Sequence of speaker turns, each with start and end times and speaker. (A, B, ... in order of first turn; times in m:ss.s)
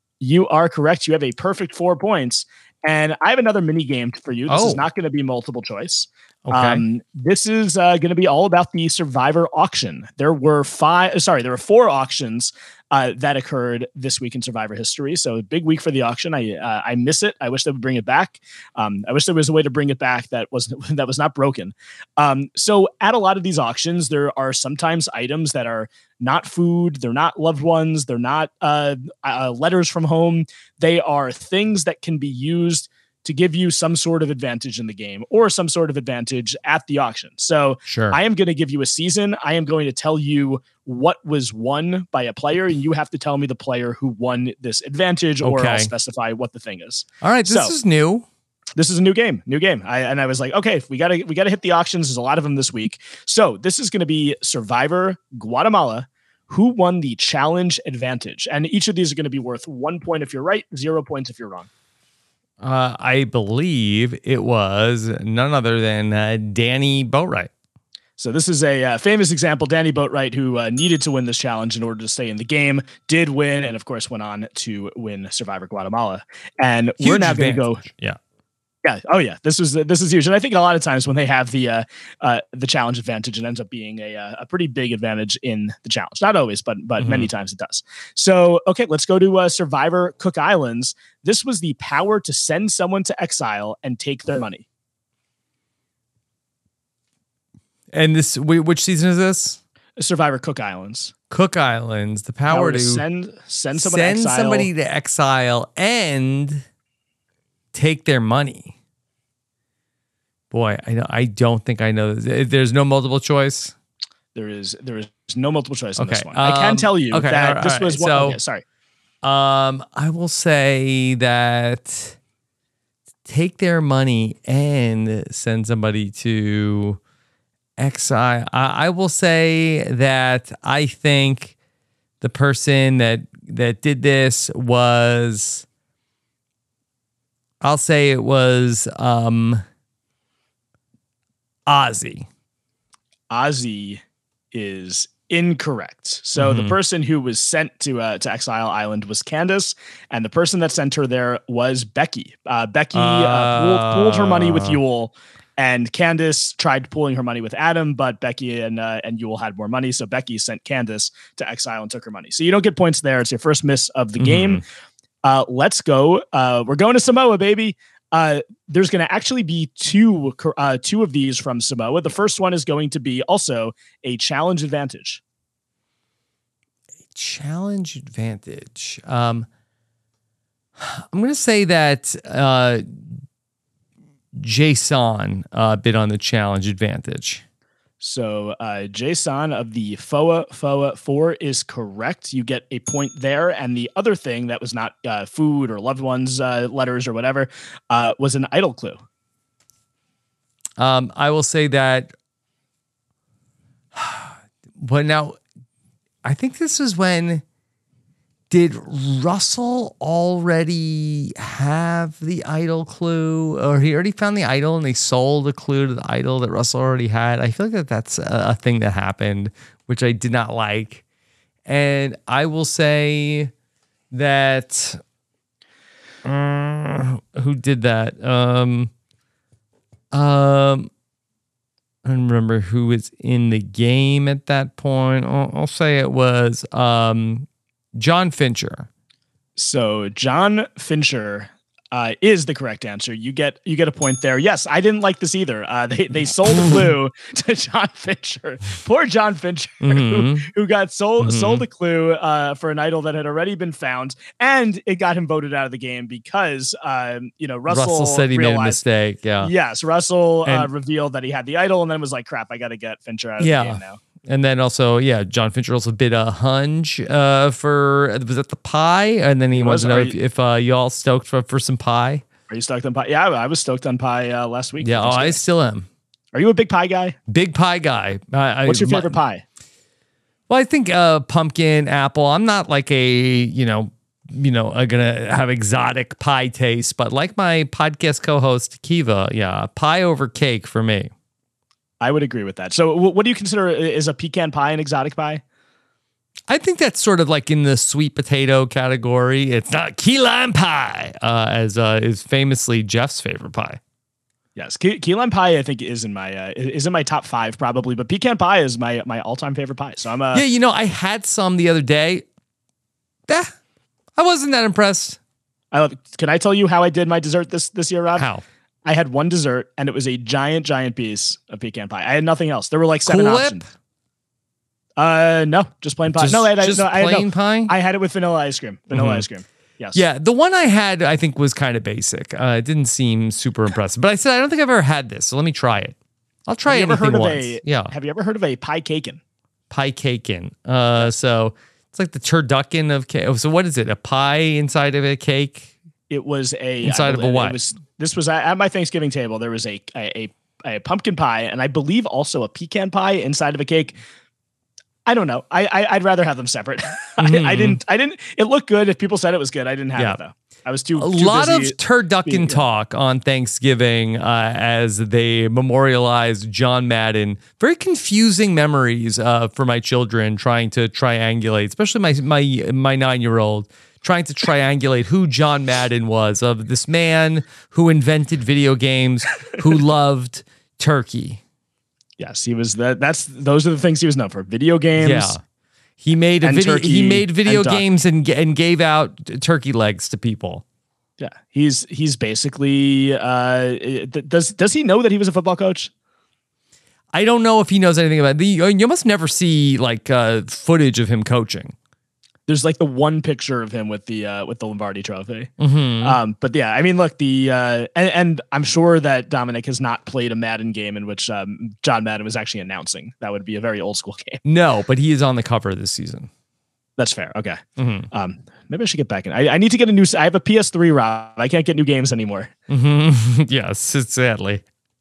0:00.2-0:47.7 A
0:04.5-0:04.8 B
0:06.5-0:06.8 B
0:37.9-0:38.2 B
0:45.4-0:45.9 B
0:47.2-0:48.3 B
0:48.8-1:01.7 A
1:02.6-1:07.5 B
1:08.2-1:17.8 A
1:17.0-1:18.2 B
1:18.8-1:34.6 A
1:27.0-1:27.3 B
1:37.9-1:39.6 B
1:40.0-1:41.1 A
1:41.3-1:43.0 B
1:42.5-1:44.7 A
1:43.7-1:46.6 B
1:47.7-1:48.8 B
1:50.5-1:53.7 B
1:54.4-1:58.6 A
1:56.0-1:58.4 B
1:59.2-2:02.2 B
2:03.3-2:07.0 B
2:07.8-2:11.6 B
2:12.2-2:15.6 B
2:17.6-2:19.6 B
2:21.7-2:22.3 B
2:23.3-2:24.0 A
2:24.5-2:44.6 A
2:26.4-2:26.8 B
2:32.9-2:34.8 B
2:44.2-2:44.6 B
2:45.2-2:55.2 A
2:57.1-2:59.5 B
3:00.8-3:02.8 B
3:04.4-3:07.4 B
3:08.0-3:19.0 A
3:20.8-3:22.1 B
3:24.0-3:25.4 B
3:26.2-3:27.4 B
3:28.5-3:41.0 B
3:41.7-3:43.5 B
3:44.1-3:45.0 B
3:46.2-3:48.9 B
3:50.1-3:50.9 B
3:52.0-3:58.9 B
3:59.6-4:18.8 A
4:06.5-4:06.9 B
4:09.8-4:10.5 B
4:11.2-4:11.7 B
4:17.7-4:19.5 B
4:19.4-4:24.0 A
4:20.4-4:20.7 B
4:23.4-4:32.2 B
4:29.5-4:30.2 A
4:32.5-4:35.4 A
4:34.8-4:35.9 B
4:36.3-4:37.2 A
4:37.3-4:39.2 B
4:38.7-4:39.4 A
4:40.5-4:51.1 B
4:52.0-4:55.4 A
4:56.5-5:03.8 B
5:04.6-5:10.4 A
5:10.3-5:12.2 B
5:13.3-5:13.5 B
5:14.2-5:15.2 B
5:15.7-5:18.3 A
5:18.2-5:18.4 B
5:18.9-5:23.6 A
5:23.1-5:23.6 B
5:25.0-5:30.0 A
5:26.1-5:27.7 B
5:28.9-5:29.3 B
5:29.9-5:36.0 B
5:36.5-5:37.9 B
5:36.7-5:39.2 A
5:39.7-5:45.7 B
5:46.1-5:54.0 A
5:46.8-5:47.6 B
5:55.1-6:02.6 A
5:57.2-5:57.8 B
6:00.0-6:00.2 B
6:01.0-6:21.4 B
6:22.2-6:25.3 A
6:25.0-6:25.4 B
6:26.0-6:30.6 B
6:26.4-6:27.8 A
6:31.2-6:35.9 A
6:37.1-6:41.8 B
6:42.5-6:45.5 A
6:45.6-6:46.2 B
6:46.0-6:54.4 A
6:54.4-6:56.3 B
6:57.0-6:57.6 A
6:57.8-6:58.1 B
6:58.1-7:02.5 A
7:02.7-7:04.6 B